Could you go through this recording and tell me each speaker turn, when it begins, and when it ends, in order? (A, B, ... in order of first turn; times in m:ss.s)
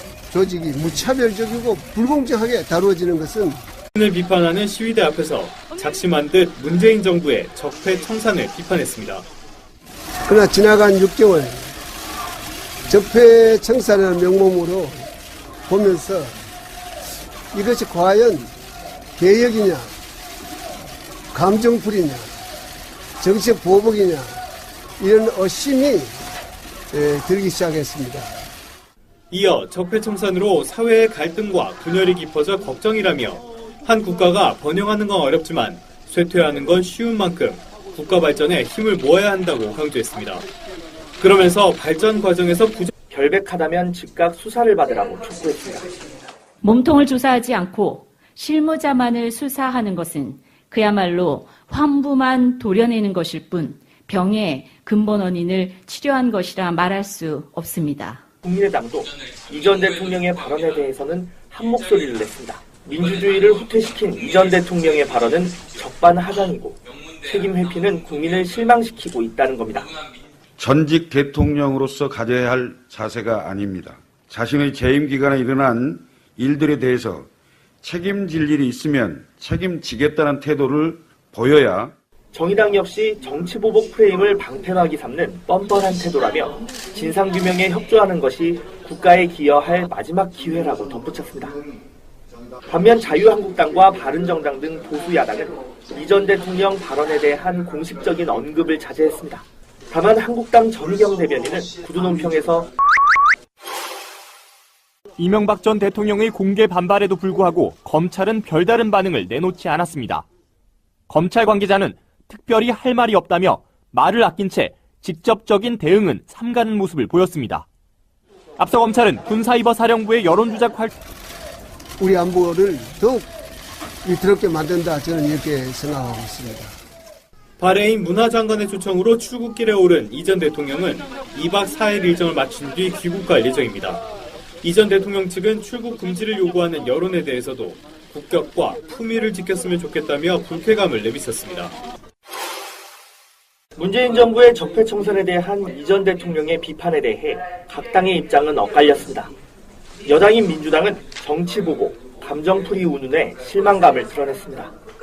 0:00.3-0:03.6 A
0:03.9-0:09.3 B
0:10.3-0:11.7 A
0:12.9-0:15.1 A
0:15.7-0:16.4 A
0:17.5-0:18.5 A
0:19.2-0:20.0 A
0:21.3-0:22.3 A
0:23.2-0:24.4 A
0:25.0-0:26.2 A
0:26.9-0:28.4 A
0:29.3-0:40.5 B
0:41.2-0:42.9 B
0:43.1-0:45.9 C
0:46.6-0:58.2 D
0:58.4-1:09.9 C
1:10.6-1:17.3 E
1:17.8-1:21.9 E
1:22.3-1:31.6 C
1:32.7-1:42.7 C
1:45.2-1:50.3 F
1:51.1-1:57.7 F
1:58.6-2:00.9 F
2:02.0-2:03.3 A
2:04.0-2:06.8 A
2:07.6-2:14.0 B
2:14.6-2:21.7 B
2:23.8-2:29.3 C
2:30.0-2:34.7 C